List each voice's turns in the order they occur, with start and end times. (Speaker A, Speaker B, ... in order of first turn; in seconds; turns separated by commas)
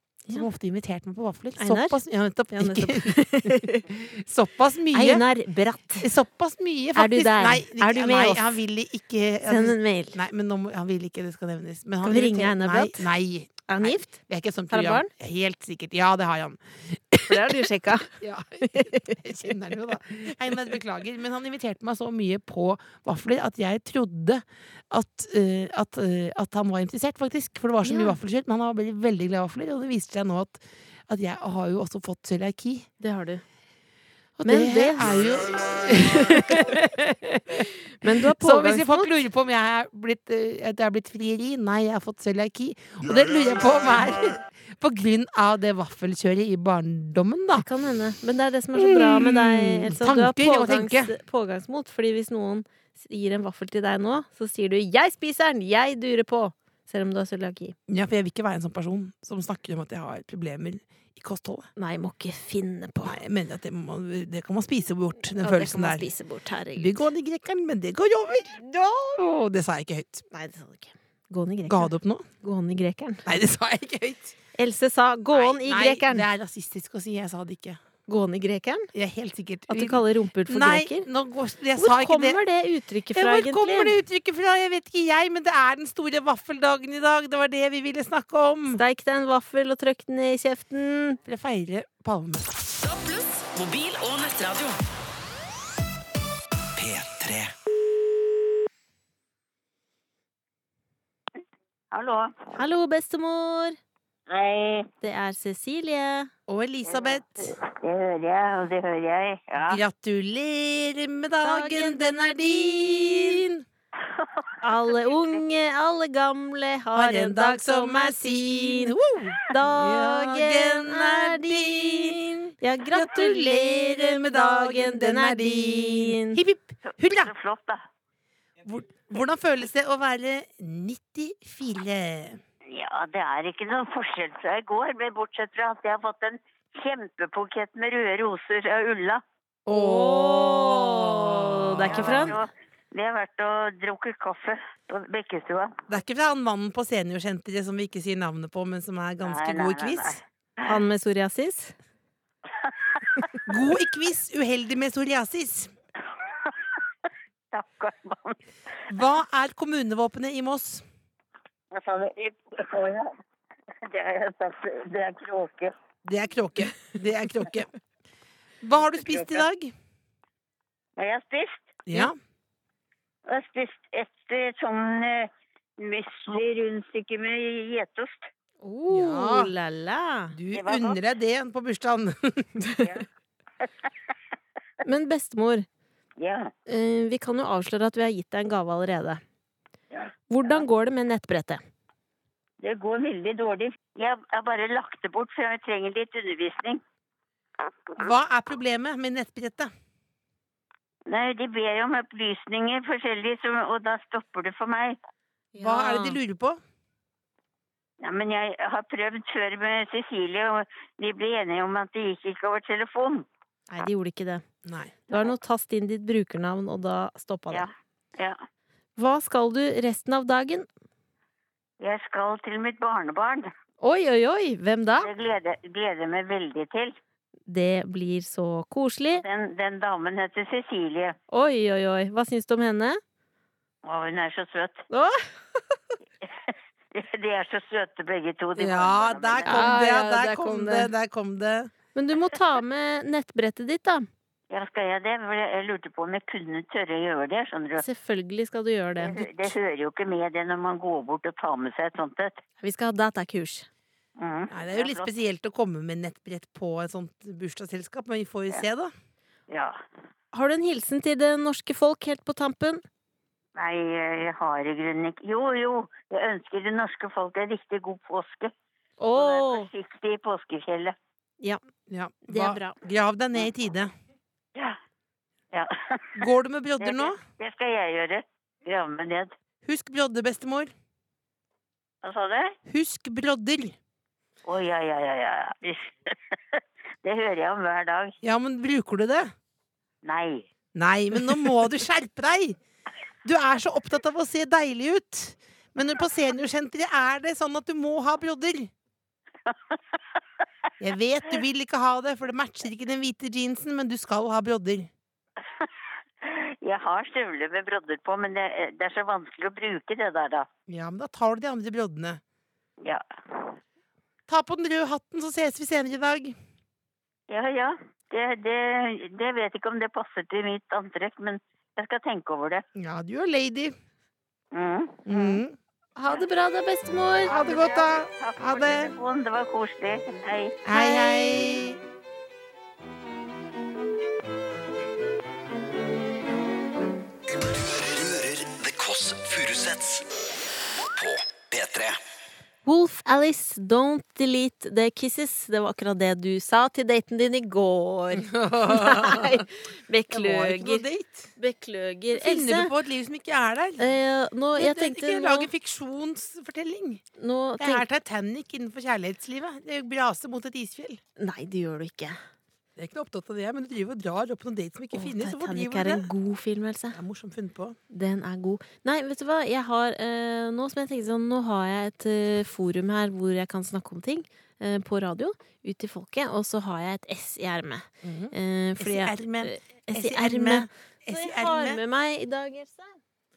Speaker A: 0.3-5.2, Speaker B: 1.6-2.0, Speaker B: 2.5-3.9, Speaker B: 4.9-6.1, Speaker A: 6.0-32.9, Speaker B: 7.0-8.6, Speaker B: 9.5-10.2, Speaker B: 12.0-13.1, Speaker B: 13.7-14.1, Speaker B: 14.7-15.1, Speaker B: 17.2-19.7, Speaker B: 20.2-20.6, Speaker B: 27.8-28.2, Speaker B: 33.0-33.4, Speaker A: 34.4-47.7, Speaker B: 34.5-35.1, Speaker B: 36.2-36.8, Speaker B: 38.0-39.1, Speaker B: 47.6-57.8, Speaker A: 48.8-51.1, Speaker A: 57.9-61.7, Speaker B: 61.8-63.2, Speaker A: 63.0-66.0, Speaker B: 65.3-67.1, Speaker A: 66.8-68.6, Speaker B: 68.6-69.2, Speaker A: 69.2-70.2, Speaker B: 70.3-73.2, Speaker A: 71.7-72.3, Speaker A: 73.2-74.3, Speaker B: 74.6-76.3, Speaker A: 75.3-77.8, Speaker B: 78.1-78.9, Speaker A: 78.9-82.4, Speaker B: 79.7-81.1, Speaker B: 81.7-84.0, Speaker A: 83.1-88.8, Speaker B: 88.7-91.2, Speaker A: 91.2-92.6, Speaker C: 92.8-94.8, Speaker D: 96.8-97.5, Speaker E: 101.9-102.5, Speaker B: 102.5-103.8, Speaker E: 104.3-104.9, Speaker B: 105.0-106.3, Speaker A: 106.5-107.5, Speaker E: 106.9-109.8, Speaker A: 109.6-113.6, Speaker B: 111.4-113.4, Speaker E: 114.0-115.4, Speaker B: 114.6-118.9, Speaker A: 116.9-127.3, Speaker B: 119.5-126.4, Speaker E: 126.8-127.8, Speaker A: 128.6-132.4, Speaker E: 132.7-139.2, Speaker A: 139.7-142.4, Speaker B: 139.7-142.3, Speaker E: 141.9-145.8, Speaker A: 145.9-150.2, Speaker E: 149.2-150.8, Speaker B: 150.6-151.7, Speaker E: 152.6-153.2, Speaker A: 153.4-155.7, Speaker E: 156.3-156.8, Speaker E: 157.5-158.4, Speaker A: 158.9-160.8, Speaker E: 161.7-163.2, Speaker E: 163.8-165.7, Speaker A: 166.0-167.7, Speaker A: 168.6-169.7, Speaker E: 168.9-169.4, Speaker E: 171.0-171.8, Speaker A: 171.9-172.1, Speaker E: 173.3-178.3, Speaker B: 178.6-180.3, Speaker A: 178.9-179.5, Speaker A: 180.3-182.5, Speaker E: 180.5-181.0, Speaker B: 182.6-182.9, Speaker E: 183.6-183.9, Speaker B: 184.8-185.7, Speaker E: 186.2-186.5, Speaker B: 186.7-189.2, Speaker E: 189.9-190.6, Speaker B: 190.3-191.6, Speaker E: 192.6-196.8, Speaker A: 198.0-199.7, Speaker E: 201.1-205.0, Speaker B: 205.5-206.2, Speaker A: 205.6-206.6, Speaker E: 208.0-213.3, Speaker B: 213.7-214.4, Speaker A: 214.6-214.9, Speaker B: 215.1-217.7, Speaker E: 217.5-218.4, Speaker B: 219.0-220.7, Speaker E: 221.8-223.5, Speaker B: 223.8-225.1, Speaker E: 225.0-226.9, Speaker B: 227.5-229.2, Speaker E: 229.2-231.2, Speaker B: 231.3-233.0, Speaker E: 233.8-234.8, Speaker B: 234.9-235.8, Speaker E: 236.2-239.8, Speaker A: 238.6-241.7, Speaker B: 239.4-240.9, Speaker B: 241.9-244.1, Speaker E: 244.5-247.8, Speaker B: 247.8-249.5, Speaker E: 249.0-252.4, Speaker B: 252.6-253.7, Speaker E: 254.2-255.1, Speaker A: 254.5-258.9, Speaker E: 259.5-259.8, Speaker B: 260.3-262.8, Speaker E: 263.6-268.5, Speaker B: 269.0-269.7, Speaker E: 269.1-270.9, Speaker A: 271.9-273.9, Speaker B: 272.3-272.8, Speaker E: 275.5-276.2, Speaker A: 276.1-277.2, Speaker E: 276.8-279.3, Speaker A: 279.6-280.7, Speaker E: 282.0-282.5, Speaker A: 282.6-283.8, Speaker E: 284.4-288.1, Speaker A: 288.2-289.3, Speaker E: 290.0-290.5, Speaker A: 290.7-292.6, Speaker A: 293.2-298.7, Speaker E: 299.5-300.0, Speaker A: 300.8-304.9, Speaker E: 306.2-310.5, Speaker A: 310.7-312.2, Speaker E: 312.8-313.6, Speaker A: 314.3-316.4, Speaker E: 317.3-322.6, Speaker A: 322.7-323.7, Speaker E: 324.5-325.1, Speaker A: 325.1-325.6, Speaker B: 325.9-327.3, Speaker E: 327.2-330.6, Speaker A: 327.3-328.9, Speaker A: 330.6-331.8, Speaker B: 330.7-331.6, Speaker D: 337.3-340.1, Speaker D: 340.8-342.0, Speaker B: 342.6-350.9, Speaker A: 348.1-349.4, Speaker A: 350.1-351.3, Speaker B: 351.4-352.7, Speaker A: 352.1-353.9, Speaker B: 353.8-355.5, Speaker A: 354.5-357.0, Speaker B: 357.2-357.8, Speaker A: 357.6-361.0, Speaker B: 361.2-362.2, Speaker A: 362.8-366.1, Speaker B: 364.9-367.0, Speaker A: 366.9-367.8, Speaker B: 367.9-383.0, Speaker A: 378.0-381.8